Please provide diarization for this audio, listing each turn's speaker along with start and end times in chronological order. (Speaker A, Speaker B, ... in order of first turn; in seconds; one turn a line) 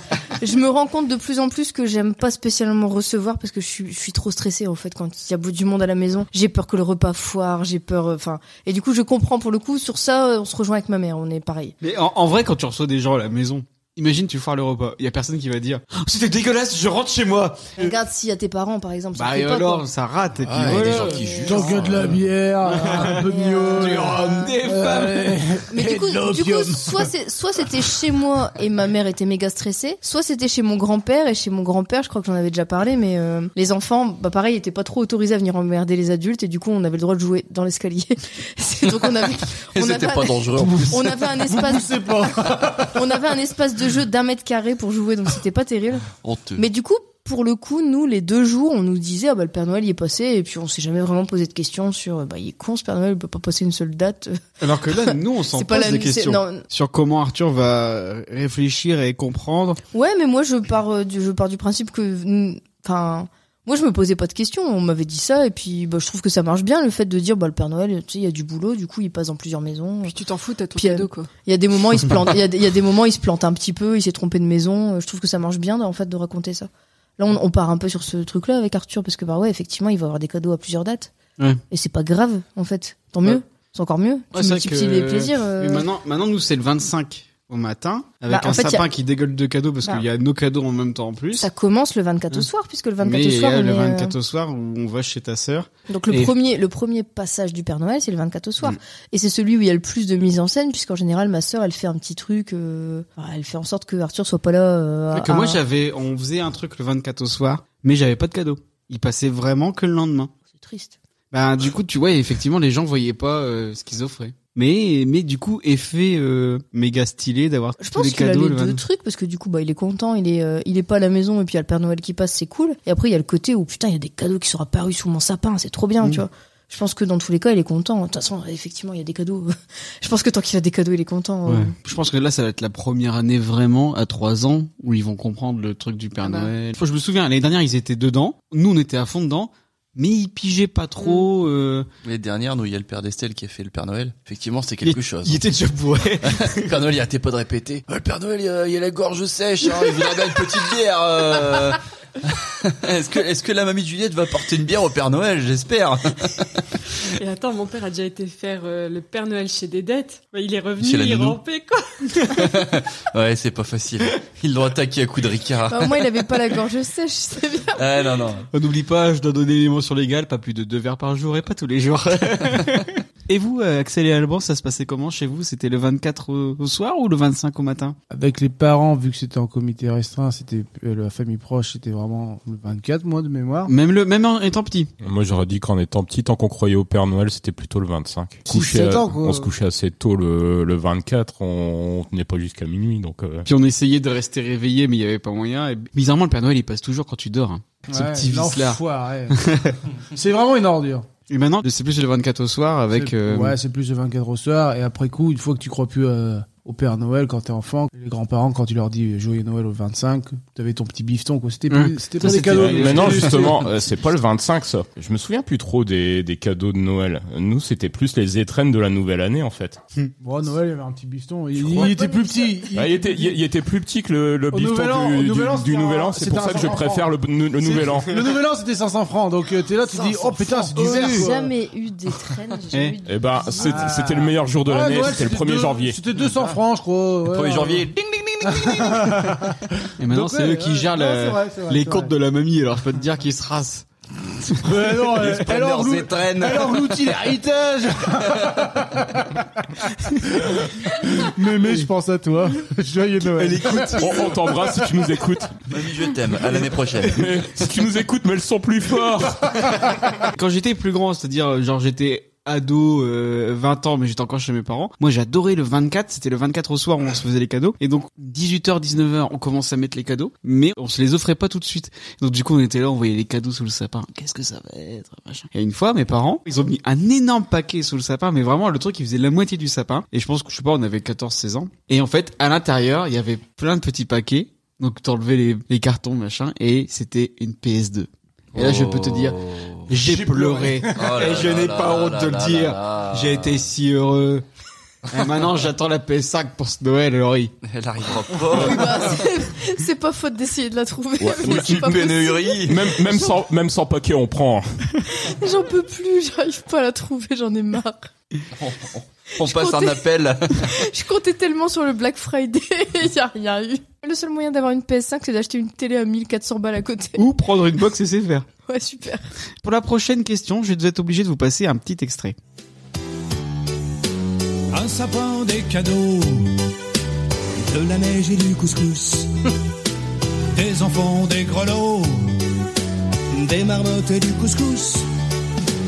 Speaker A: 0.4-11.8
Speaker B: 11.8-17.9
Speaker A: 17.8-19.8
Speaker B: 19.1-25.3
Speaker C: 20.4-22.2
Speaker A: 20.9-21.8
Speaker D: 21.4-27.1
Speaker A: 22.9-24.5
Speaker A: 25.7-56.6
Speaker C: 39.7-41.2
Speaker D: 40.6-43.1
Speaker C: 46.2-46.6
Speaker B: 54.6-59.8
Speaker A: 59.9-70.2
Speaker E: 70.0-71.3
Speaker A: 70.8-81.1
Speaker A: 81.7-85.8
Speaker B: 84.3-91.5
Speaker A: 88.3-88.8
Speaker A: 91.4-94.1
Speaker B: 93.0-96.3
Speaker A: 95.9-105.6
Speaker B: 105.1-110.3
Speaker A: 110.5-110.9
Speaker B: 111.3-118.8
Speaker A: 117.8-131.7
Speaker B: 131.4-141.9
Speaker C: 142.0-145.4
Speaker B: 144.8-146.7
Speaker C: 146.2-156.6
Speaker E: 157.1-162.3
Speaker C: 160.8-161.4
Speaker C: 162.3-166.1
Speaker A: 165.7-168.1
Speaker C: 167.7-168.5
Speaker B: 168.5-178.0
Speaker D: 178.1-183.7
Speaker B: 183.7-184.9
Speaker F: 185.0-193.5
Speaker D: 188.5-189.5
Speaker B: 193.5-199.8
Speaker D: 197.9-199.4
Speaker D: 200.1-201.1
Speaker B: 201.3-203.6
Speaker D: 202.9-213.6
Speaker B: 211.7-213.6
Speaker F: 212.3-219.8
Speaker D: 220.2-223.4
Speaker C: 221.6-222.0
Speaker A: 221.8-222.4
Speaker F: 222.7-228.1
Speaker D: 224.5-227.1
Speaker B: 227.6-228.0
Speaker D: 227.8-231.5
Speaker C: 229.9-231.2
Speaker A: 230.8-233.9
Speaker B: 232.7-233.0
Speaker F: 233.0-236.0
Speaker D: 233.5-242.1
Speaker C: 236.3-236.6
Speaker C: 237.3-239.5
Speaker B: 240.0-243.8
Speaker B: 244.4-245.2
Speaker D: 244.6-249.7
Speaker C: 245.2-247.0
Speaker C: 248.3-248.6
Speaker D: 250.2-254.9
Speaker B: 253.3-254.4
Speaker F: 254.0-255.5
Speaker C: 255.7-257.3
Speaker F: 257.1-259.7
Speaker B: 260.3-294.4
Speaker C: 288.5-289.9
Speaker D: 289.9-291.2
Speaker C: 290.9-293.7
Speaker B: 295.1-297.5
Speaker C: 297.6-299.2
Speaker A: 298.5-303.4
Speaker F: 301.2-302.1
Speaker C: 301.4-302.9
Speaker F: 302.7-304.7
Speaker A: 305.1-308.1
Speaker C: 308.6-310.8
Speaker A: 309.4-317.2
Speaker B: 317.2-318.5
Speaker A: 318.6-319.2
Speaker B: 319.6-322.4
Speaker G: 324.7-326.5
Speaker G: 327.6-329.3
Speaker G: 330.5-332.4
Speaker G: 333.3-335.1